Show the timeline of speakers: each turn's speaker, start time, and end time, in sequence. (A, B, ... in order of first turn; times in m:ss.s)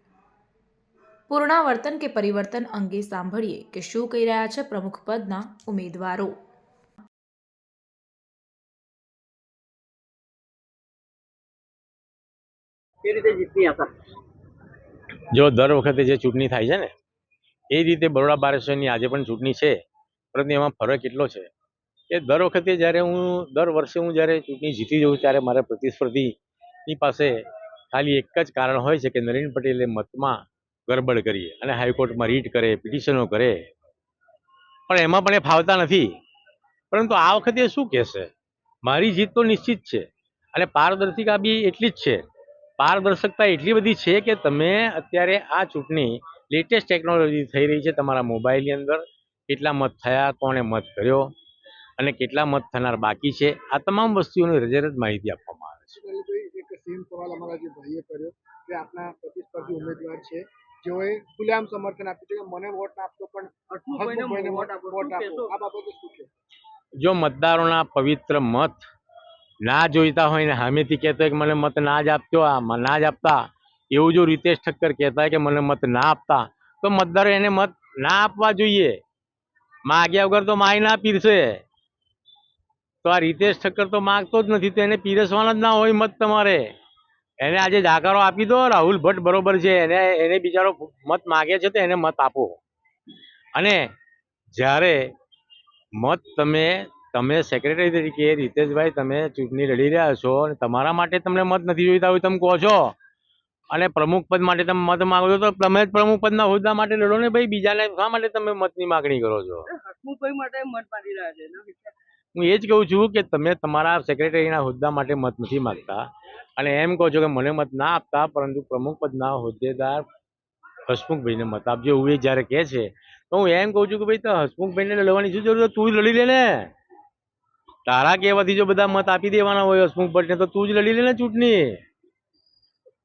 0:01.3-0:06.3 A
0:13.0-0:13.9 B
0:15.3-0:16.9 C
0:17.7-0:19.8 C
0:20.3-0:21.5 C
0:22.1-0:26.3 C
0:26.9-0:27.4 C
0:27.9-0:33.6 C
0:34.9-0:36.1 C
0:36.9-0:38.3 C
0:38.8-0:42.2 C
0:42.8-0:51.2 C
0:52.0-0:56.0 C
0:55.9-1:06.3 D
1:03.7-1:05.5 B
1:07.0-1:08.8 C
1:09.6-1:19.0 C
1:19.9-1:21.6 C
1:23.0-1:26.6 C
1:27.4-1:32.6 C
1:33.5-1:33.9 C
1:34.5-1:35.1 C
1:36.0-1:42.9 C
1:43.7-1:49.6 C
1:49.7-1:51.9 B
1:52.4-1:56.0 C
1:56.6-2:00.0 C
2:00.9-2:06.7 C
2:07.8-2:11.8 C